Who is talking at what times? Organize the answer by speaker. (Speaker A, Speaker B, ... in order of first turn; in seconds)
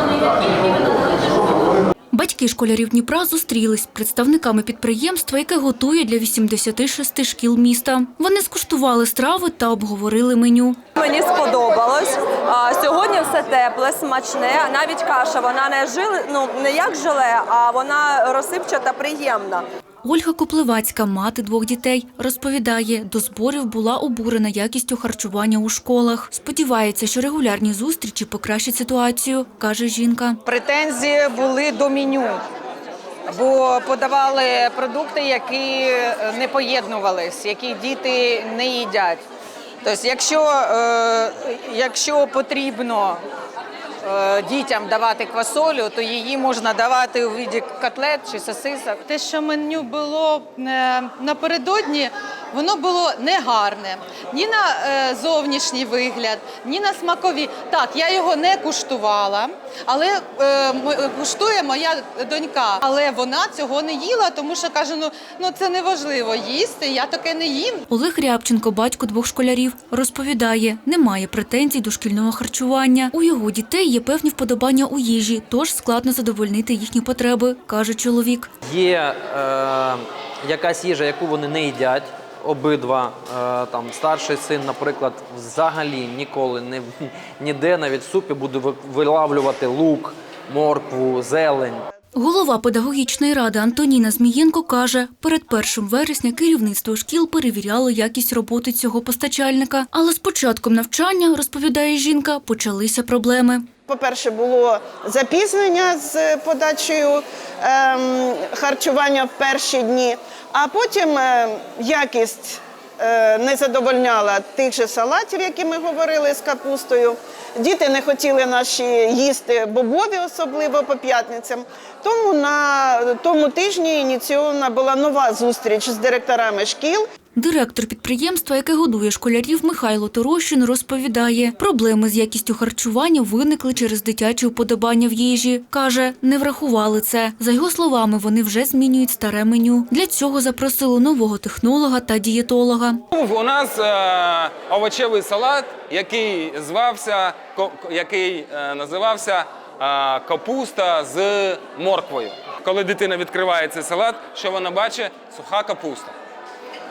Speaker A: 2.1-10.8, 20.0-30.4, 67.9-78.5, 92.2-103.7, 127.4-143.0
Speaker B: 11.0-19.6
Speaker C: 30.5-32.4, 33.3-39.2, 39.8-43.2, 44.0-49.0
Speaker D: 49.0-67.8
Speaker E: 78.6-91.8
Speaker F: 103.9-127.0
Speaker G: 143.1-156.2